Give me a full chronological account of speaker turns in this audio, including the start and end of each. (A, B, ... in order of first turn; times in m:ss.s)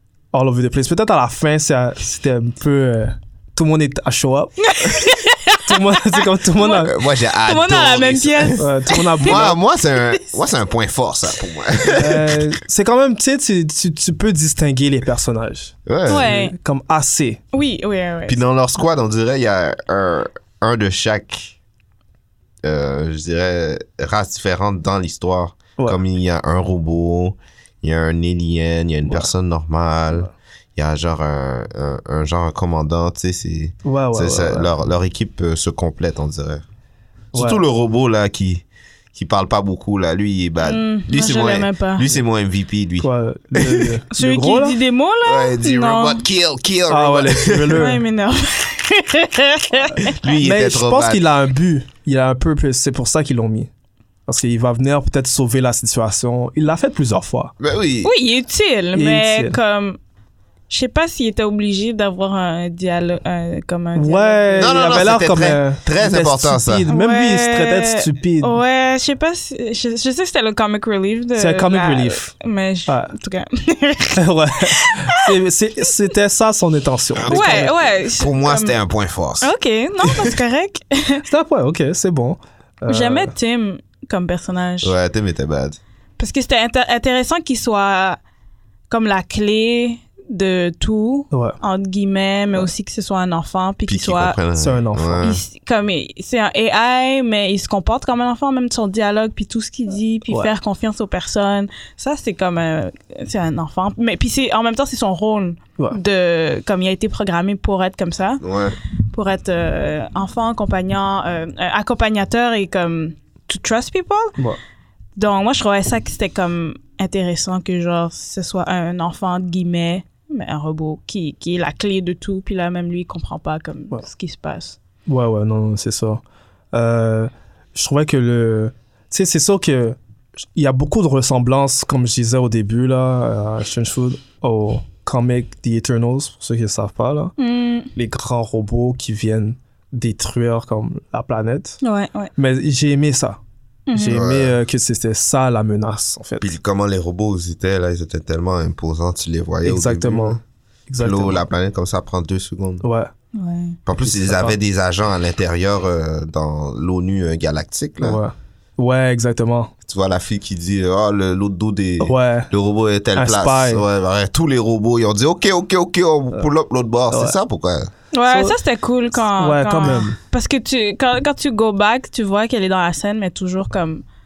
0:00.3-0:04.5 A
0:04.6-0:09.6 B
0:05.6-0:06.9 A
0:06.8-0:08.6 C
0:08.6-0:09.6 A
0:09.2-0:12.4 C
0:11.9-0:17.4 A
0:15.9-0:16.3 C
0:16.1-0:16.5 B
0:17.5-0:18.4 B
0:18.3-0:21.6 C
0:22.6-0:36.6 C
0:33.8-0:34.7 A
0:37.3-0:37.6 A
0:37.3-0:44.0 C
0:40.6-0:42.1 B
0:43.0-0:44.8 A
0:44.1-0:46.2 B
0:45.2-0:47.8 C
0:46.9-0:48.0 A
0:47.7-0:50.2 B
0:50.0-0:51.3 C
0:50.4-0:53.7 A
0:54.3-0:57.5 A
0:57.6-0:58.1 C
0:58.0-1:00.0 B
0:59.0-0:59.6 A
1:00.7-1:04.7 B
1:04.0-1:08.6 A
1:04.6-1:06.9 C
1:06.9-1:15.3 B
1:11.4-1:12.3 A
1:12.9-1:13.1 A
1:14.2-1:17.8 A
1:17.2-1:19.5 C
1:17.3-1:18.8 B
1:19.4-1:21.2 B
1:20.0-1:20.4 C
1:21.3-1:23.3 A
1:22.9-1:25.0 B
1:24.8-1:25.8 C
1:26.2-1:28.2 B
1:28.9-1:34.4 B
1:31.3-1:31.6 A
1:33.9-1:35.4 C
1:34.6-1:35.2 A
1:35.2-1:48.4 B
1:48.4-1:48.8 C
1:49.1-1:54.4 B
1:55.2-2:04.8 B
2:05.1-2:06.2 A
2:06.7-2:10.0 A
2:10.6-2:17.3 A
2:17.4-2:17.9 B
2:18.0-2:21.8 A
2:21.8-2:22.3 B
2:22.4-2:23.4 A
2:23.9-2:24.2 B
2:23.9-2:26.5 A
2:24.0-2:24.6 C
2:26.4-2:30.4 C
2:29.6-2:31.5 A
2:31.0-2:32.8 C
2:32.8-2:33.1 A
2:33.3-2:33.8 B
2:33.9-2:38.2 C
2:34.1-2:34.6 A
2:38.0-2:39.7 A
2:39.8-2:47.9 C
2:42.0-2:42.5 A
2:43.2-2:43.8 A
2:47.1-2:47.4 A
2:48.1-2:54.0 B
2:48.3-2:48.6 A
2:49.4-2:50.2 A